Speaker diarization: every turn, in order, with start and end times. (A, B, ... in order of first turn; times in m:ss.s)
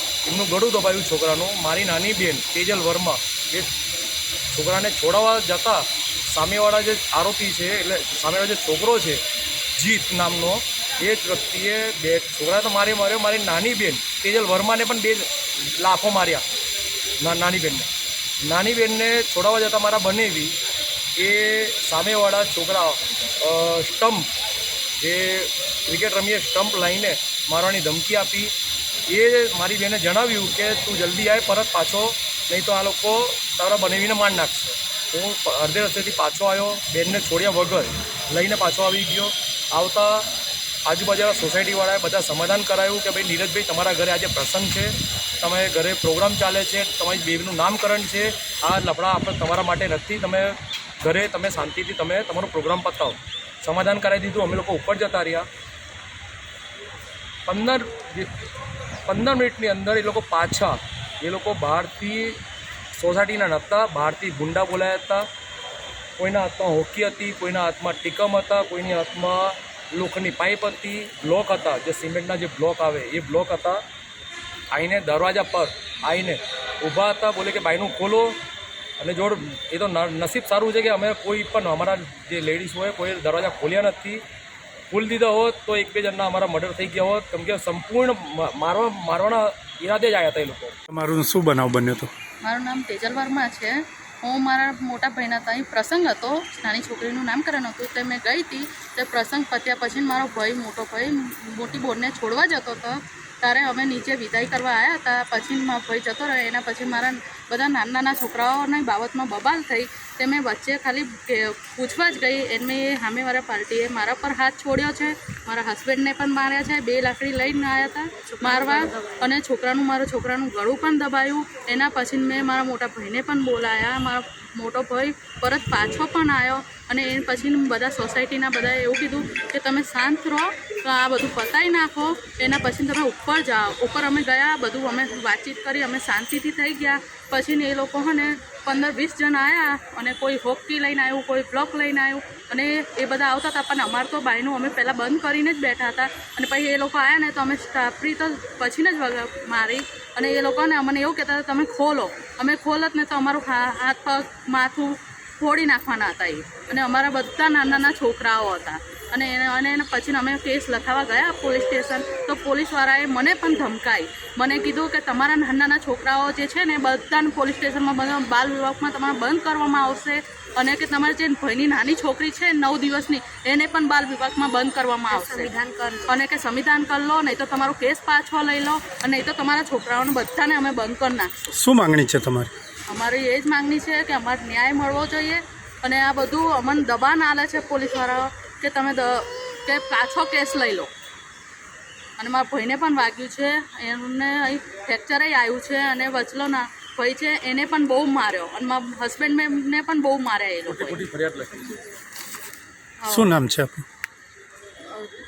0:00.2-0:03.7 A
0:04.5-0:09.2 A
0:09.8-0:16.5 A
0:17.2-0:17.9 A
0:18.4-0:20.6 A
0:21.2-0:24.3 A
0:25.0-0:28.5 A
0:29.1-0:55.5 A
0:57.5-0:58.3 A
0:59.1-1:02.4 A
1:02.9-1:05.3 A
1:06.2-1:13.8 A
1:14.7-1:18.4 A
1:19.0-1:24.2 A
1:24.9-1:30.8 A
1:30.9-1:32.1 B
1:32.4-3:01.3 C
3:01.5-3:02.5 B
3:02.9-3:10.9 C
3:12.2-3:21.0 C
3:20.6-3:21.8 A
3:23.0-3:23.3 C
3:23.1-3:23.8 B